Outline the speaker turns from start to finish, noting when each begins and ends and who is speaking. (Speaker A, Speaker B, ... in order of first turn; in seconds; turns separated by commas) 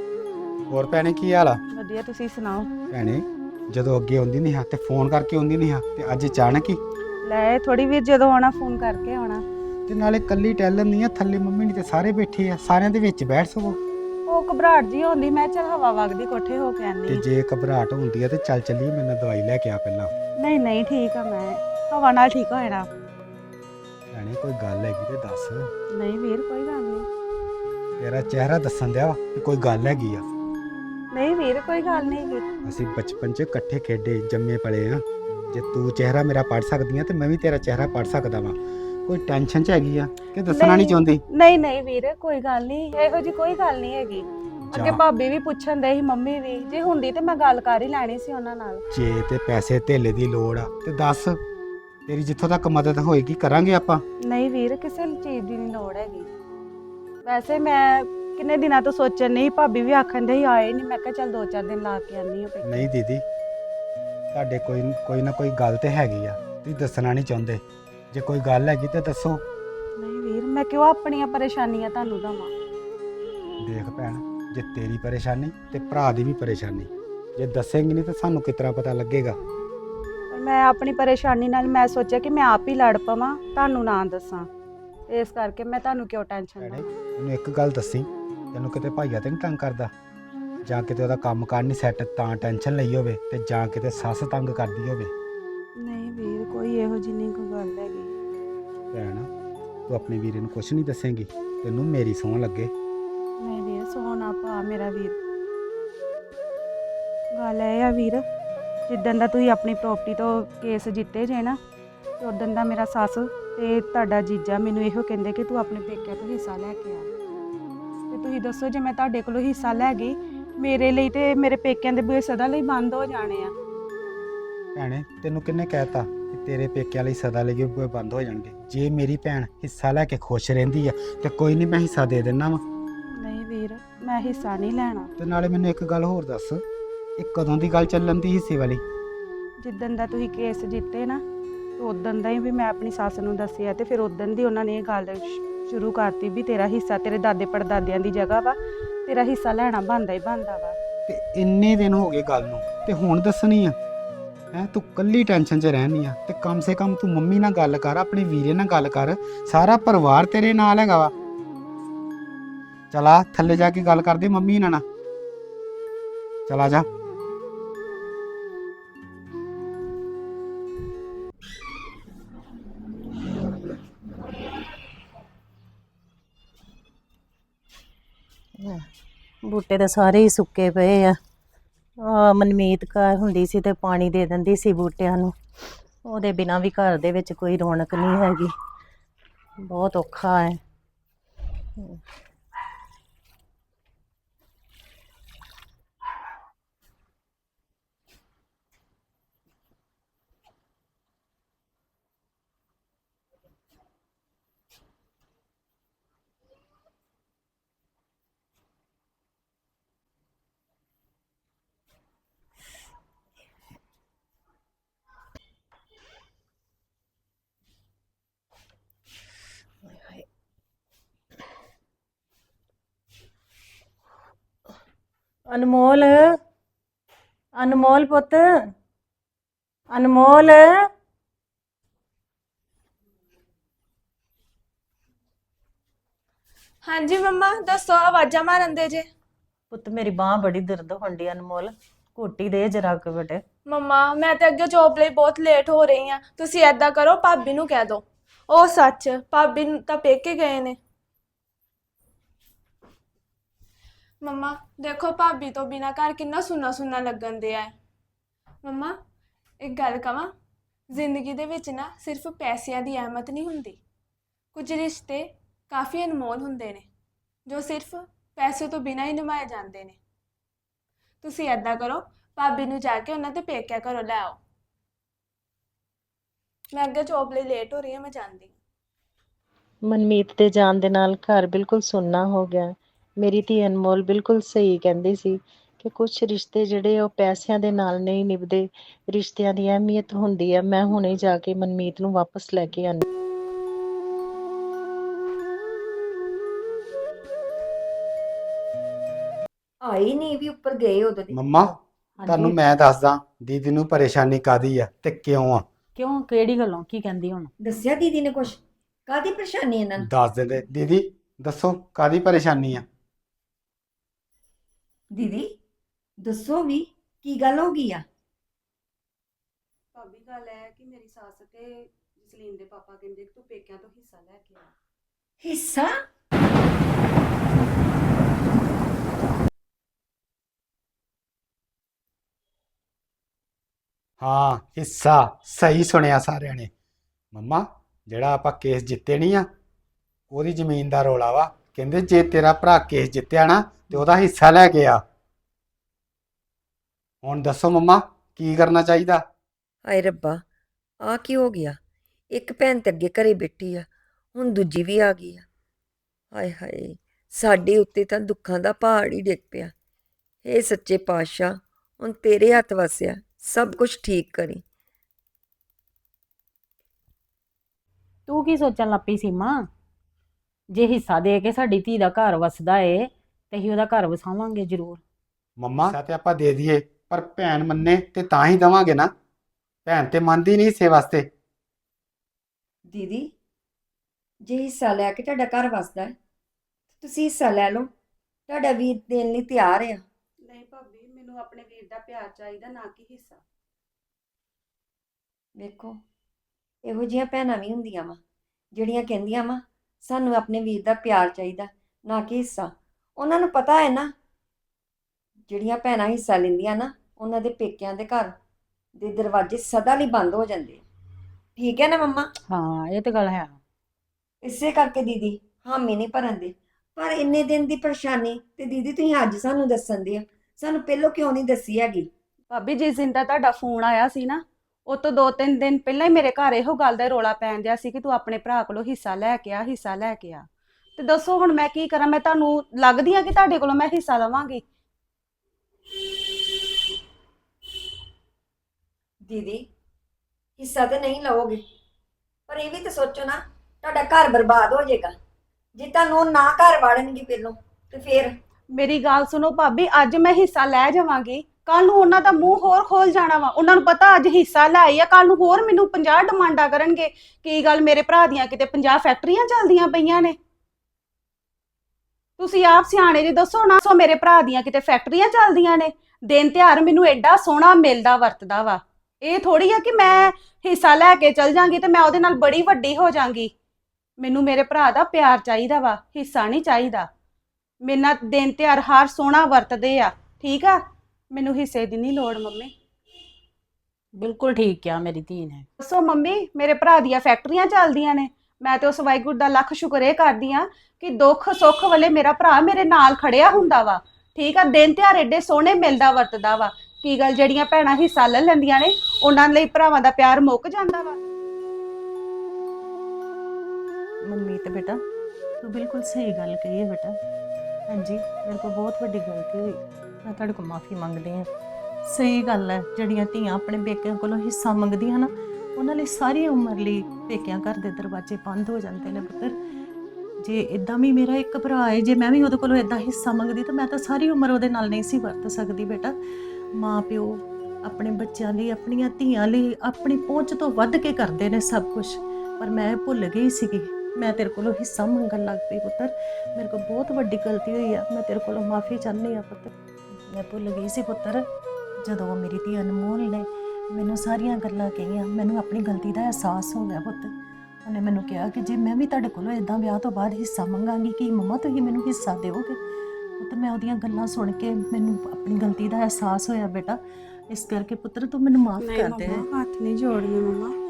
Speaker A: 0.7-1.6, Speaker B: 1.7-2.7, Speaker A: 2.9-6.8, Speaker B: 7.2-9.4, Speaker A: 9.9-13.8, Speaker B: 14.3-17.2, Speaker A: 17.1-20.1, Speaker B: 20.4-22.9, Speaker A: 24.1-25.7, Speaker B: 25.9-27.1, Speaker A: 28.0-30.2, Speaker B: 31.1-32.4, Speaker A: 32.6-41.2, Speaker B: 40.5-48.8, Speaker A: 44.7-45.0, Speaker A: 48.9-51.4, Speaker A: 52.1-54.0, Speaker B: 54.3-56.3, Speaker B: 57.2-62.9, Speaker A: 62.6-63.2, Speaker A: 64.3-69.4, Speaker B: 70.0-72.5, Speaker A: 73.6-79.4, Speaker B: 80.3-84.5, Speaker B: 85.1-86.9, Speaker A: 86.6-89.9, Speaker A: 90.6-95.1, Speaker B: 95.8-98.1, Speaker A: 98.9-99.3, Speaker A: 99.9-102.7, Speaker B: 103.4-105.2, Speaker B: 107.3-108.2, Speaker B: 108.9-111.6, Speaker B: 112.2-117.1, Speaker B: 118.1-123.5, Speaker A: 124.7-132.6, Speaker B: 133.2-135.1, Speaker A: 135.2-136.6, Speaker A: 137.2-138.8, Speaker B: 139.6-141.2, Speaker B: 141.8-150.8, Speaker A: 151.1-153.8, Speaker A: 154.5-161.1, Speaker A: 162.9-164.8, Speaker A: 166.5-166.9, Speaker C: 179.4-181.2, Speaker C: 182.0-185.4, Speaker C: 186.0-188.5, Speaker C: 189.6-190.6, Speaker C: 219.8-220.2, Speaker C: 225.5-226.4, Speaker C: 227.5-228.6, Speaker C: 229.9-230.8, Speaker D: 236.8-239.1, Speaker C: 239.7-243.4, Speaker D: 243.7-250.8, Speaker D: 254.2-257.7, Speaker D: 258.6-258.9, Speaker D: 259.6-260.3, Speaker D: 260.9-263.8, Speaker D: 264.5-266.9, Speaker D: 267.5-270.0, Speaker D: 271.2-274.4, Speaker D: 276.7-278.6, Speaker C: 279.9-293.0, Speaker E: 299.8-301.4, Speaker A: 301.3-301.7, Speaker F: 302.2-302.6, Speaker A: 302.2-305.6, Speaker F: 305.9-307.5, Speaker E: 307.6-310.1, Speaker A: 310.0-312.8, Speaker E: 315.1-315.5, Speaker E: 316.2-318.0, Speaker B: 319.9-324.7, Speaker E: 325.4-325.9, Speaker A: 334.2-336.7, Speaker A: 337.3-339.5, Speaker A: 340.3-345.0, Speaker A: 347.2-349.2, Speaker E: 349.8-350.4, Speaker E: 351.0-351.8, Speaker E: 352.3-355.4, Speaker E: 356.3-359.7, Speaker E: 360.4-364.6, Speaker F: 368.3-369.7, Speaker F: 370.7-375.0, Speaker A: 375.6-379.1, Speaker A: 379.9-381.3, Speaker E: 382.9-383.3, Speaker E: 384.4-386.1, Speaker E: 387.0-387.9, Speaker E: 388.5-390.0, Speaker B: 390.5-393.4, Speaker E: 395.6-396.0, Speaker E: 396.8-398.2, Speaker E: 398.7-404.1, Speaker E: 405.5-408.3, Speaker E: 409.0-410.8, Speaker E: 411.6-412.3, Speaker F: 412.5-413.6, Speaker E: 414.4-422.1, Speaker B: 422.5-430.4, Speaker B: 431.0-434.6, Speaker E: 439.2-439.7, Speaker E: 440.6-441.6, Speaker E: 442.5-445.1, Speaker E: 445.8-448.3, Speaker B: 448.7-460.4, Speaker B: 462.4-473.5, Speaker B: 474.2-477.1, Speaker B: 477.8-480.8, Speaker B: 481.3-482.7, Speaker F: 484.1-485.6, Speaker B: 485.8-501.2, Speaker C: 504.2-505.0, Speaker C: 505.6-507.1, Speaker C: 507.9-511.5, Speaker C: 512.0-519.6, Speaker C: 520.4-526.2, Speaker C: 526.7-541.4, Speaker C: 542.0-547.3, Speaker C: 547.8-552.8, Speaker C: 553.4-557.0, Speaker C: 557.5-559.5, Speaker B: 558.8-560.7